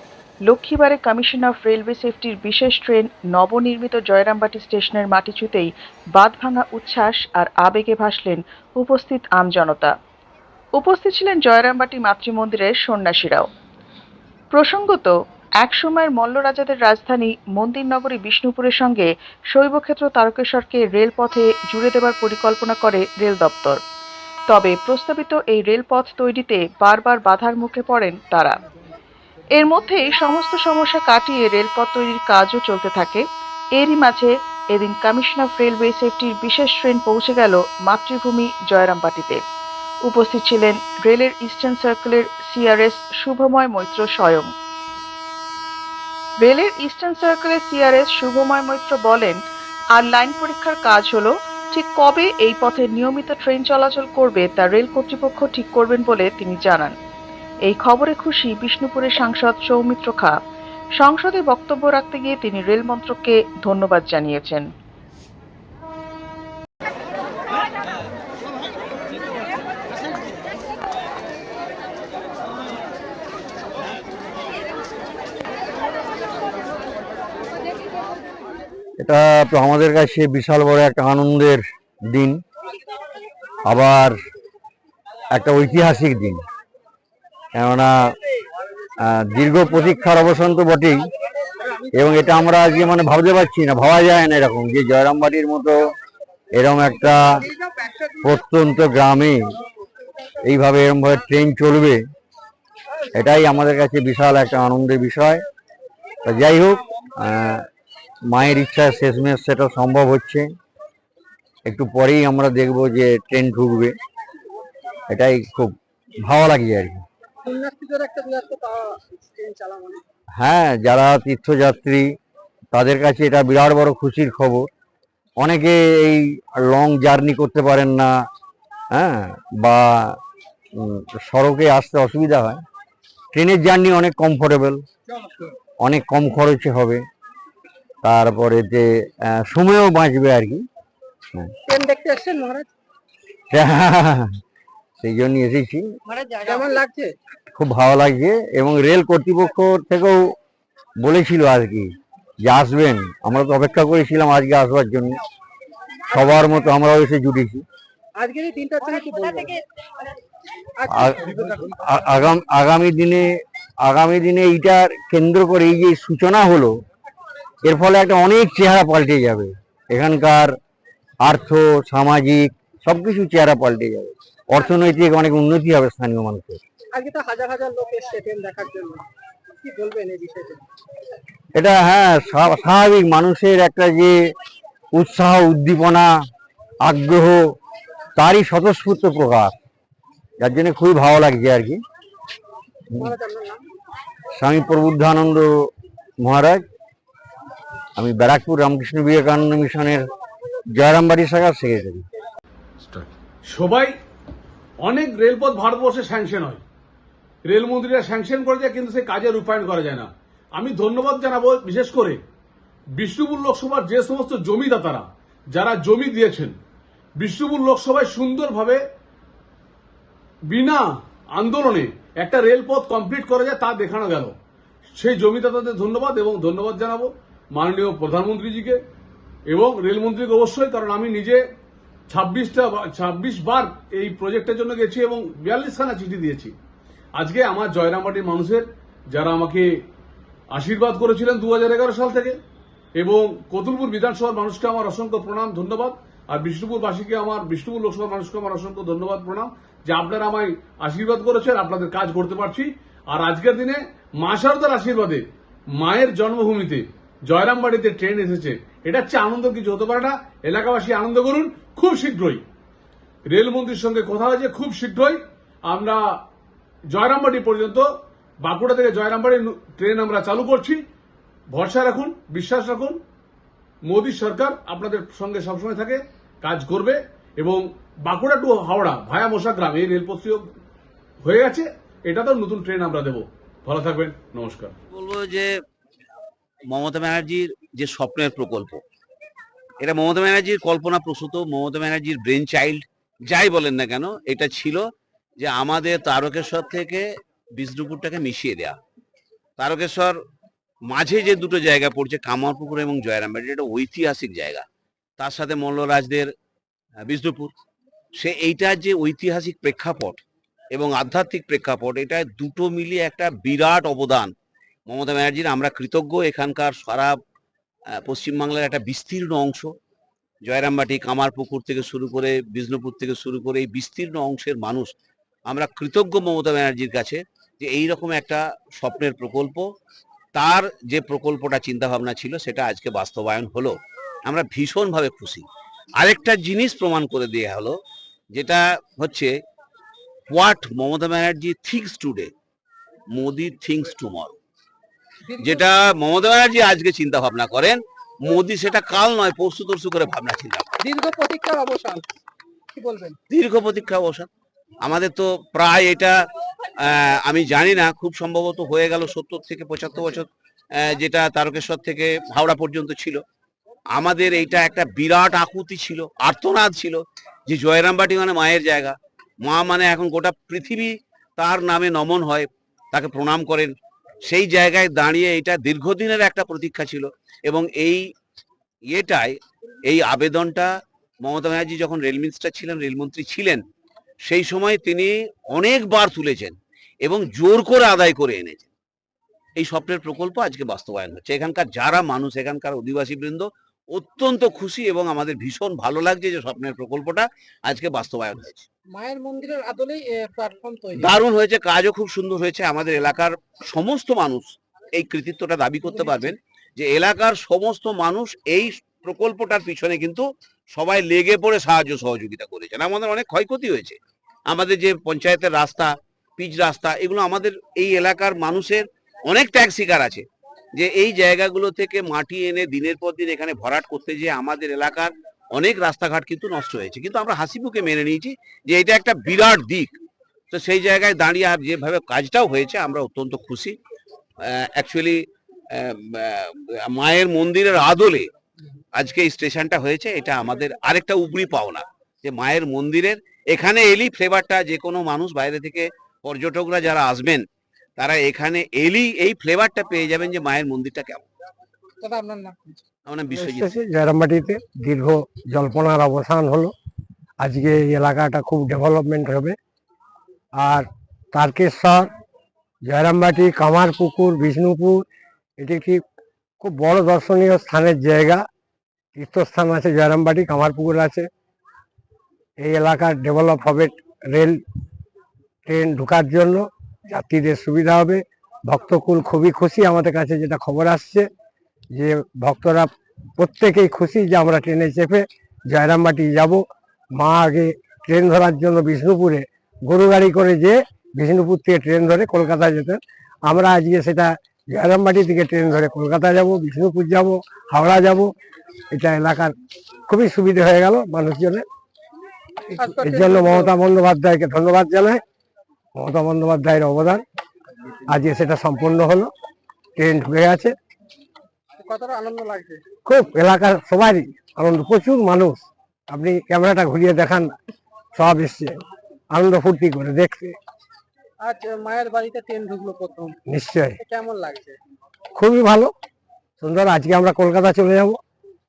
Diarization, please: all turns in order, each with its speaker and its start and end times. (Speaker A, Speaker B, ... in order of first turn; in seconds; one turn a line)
Speaker A: 0.5-9.9
Speaker A: 10.8-13.5
Speaker A: 14.5-23.8
Speaker A: 24.5-28.6
Speaker A: 29.6-33.2
Speaker A: 33.8-39.4
Speaker A: 40.0-44.5
Speaker A: 46.4-49.4
Speaker A: 50.0-56.9
Speaker A: 57.6-60.4
Speaker A: 61.0-64.7
Speaker B: 79.0-81.6
Speaker B: 83.7-84.1
Speaker B: 85.3-86.4
Speaker B: 87.5-87.9
Speaker B: 89.2-91.0
Speaker B: 92.0-95.7
Speaker B: 96.5-97.4
Speaker B: 98.2-99.3
Speaker B: 100.5-102.0
Speaker B: 103.2-105.4
Speaker B: 106.3-107.3
Speaker B: 108.3-110.4
Speaker B: 111.7-113.9
Speaker B: 115.1-115.7
Speaker B: 116.3-117.0
Speaker C: 117.4-120.0
Speaker B: 120.4-122.0
Speaker B: 122.7-124.7
Speaker B: 125.4-128.1
Speaker B: 129.0-129.8
Speaker B: 130.9-132.6
Speaker B: 133.3-134.8
Speaker B: 135.8-137.0
Speaker B: 138.0-138.8
Speaker B: 139.4-140.6
Speaker C: 141.7-142.7
Speaker B: 143.5-144.2
Speaker B: 145.0-145.8
Speaker C: 146.4-147.1
Speaker B: 147.6-150.1
Speaker B: 151.0-151.8
Speaker B: 152.5-155.2
Speaker B: 156.1-157.6
Speaker C: 158.2-159.6
Speaker C: 160.8-161.7
Speaker B: 161.9-163.2
Speaker B: 163.9-166.7
Speaker B: 167.6-170.5
Speaker B: 171.3-176.6
Speaker C: 176.9-179.0
Speaker C: 179.6-180.6
Speaker B: 181.6-184.1
Speaker B: 185.0-186.0
Speaker B: 186.9-187.3
Speaker B: 188.2-189.5
Speaker B: 190.4-191.8
Speaker C: 193.0-193.6
Speaker B: 194.4-195.4
Speaker B: 196.2-196.6
Speaker B: 198.0-200.1
Speaker B: 200.8-202.0
Speaker D: 202.9-203.9
Speaker D: 204.8-206.6
Speaker D: 207.4-212.2
Speaker D: 212.9-216.6
Speaker D: 217.2-218.8
Speaker D: 220.5-224.3
Speaker D: 224.9-228.8
Speaker D: 229.5-231.4
Speaker D: 232.1-236.5
Speaker D: 237.2-239.8
Speaker D: 240.5-242.4
Speaker D: 242.9-262.4
Speaker D: 263.2-266.2
Speaker D: 266.9-267.9
Speaker D: 268.4-270.8
Speaker D: 271.5-273.0
Speaker D: 273.8-280.5
Speaker D: 281.2-284.8
Speaker E: 284.9-285.5
Speaker E: 286.7-288.8
Speaker E: 289.8-294.8
Speaker E: 295.4-297.0
Speaker E: 297.6-298.8
Speaker E: 299.6-300.1
Speaker E: 300.9-304.6
Speaker E: 305.2-306.3
Speaker E: 307.1-307.5
Speaker E: 308.2-310.2
Speaker E: 310.7-314.3
Speaker E: 314.9-317.1
Speaker E: 318.1-319.7
Speaker E: 320.5-324.9
Speaker E: 325.5-329.6
Speaker E: 330.3-333.8
Speaker E: 334.3-335.4
Speaker E: 336.0-337.7
Speaker E: 338.3-339.3
Speaker E: 340.3-342.3
Speaker E: 343.1-344.4
Speaker C: 345.2-345.7
Speaker E: 345.4-350.7
Speaker C: 350.8-352.1
Speaker C: 352.7-353.2
Speaker E: 353.3-354.3
Speaker E: 354.9-356.1
Speaker E: 356.9-363.2
Speaker E: 363.9-373.7
Speaker E: 374.3-378.0
Speaker E: 378.9-379.4
Speaker E: 379.9-380.7
Speaker E: 381.2-383.6
Speaker E: 384.3-386.5
Speaker E: 387.0-388.7
Speaker E: 389.6-398.6
Speaker C: 398.9-401.2
Speaker E: 400.9-410.2
Speaker E: 410.7-414.0
Speaker E: 414.5-420.2
Speaker E: 420.8-429.9
Speaker E: 430.5-433.8
Speaker E: 434.4-435.2
Speaker E: 435.7-438.2
Speaker E: 438.9-447.4
Speaker E: 448.0-451.2
Speaker C: 452.0-452.7
Speaker E: 453.1-453.7
Speaker F: 453.3-456.7
Speaker F: 457.4-459.6
Speaker F: 460.6-462.1
Speaker F: 462.9-465.0
Speaker F: 465.6-466.0
Speaker F: 466.6-468.4
Speaker F: 469.1-471.3
Speaker F: 472.6-474.6
Speaker F: 475.6-481.3
Speaker F: 481.9-486.6
Speaker F: 487.1-498.3
Speaker F: 498.9-499.5
Speaker F: 500.1-501.6
Speaker C: 502.8-503.7
Speaker F: 502.8-505.2
Speaker F: 505.9-507.2
Speaker F: 508.1-509.3
Speaker F: 510.0-510.7
Speaker C: 511.8-512.8
Speaker F: 513.0-517.5
Speaker F: 518.1-518.7
Speaker F: 519.3-520.5
Speaker C: 521.4-523.4
Speaker F: 523.5-524.0
Speaker C: 524.0-524.8
Speaker F: 525.4-525.9
Speaker F: 526.6-528.2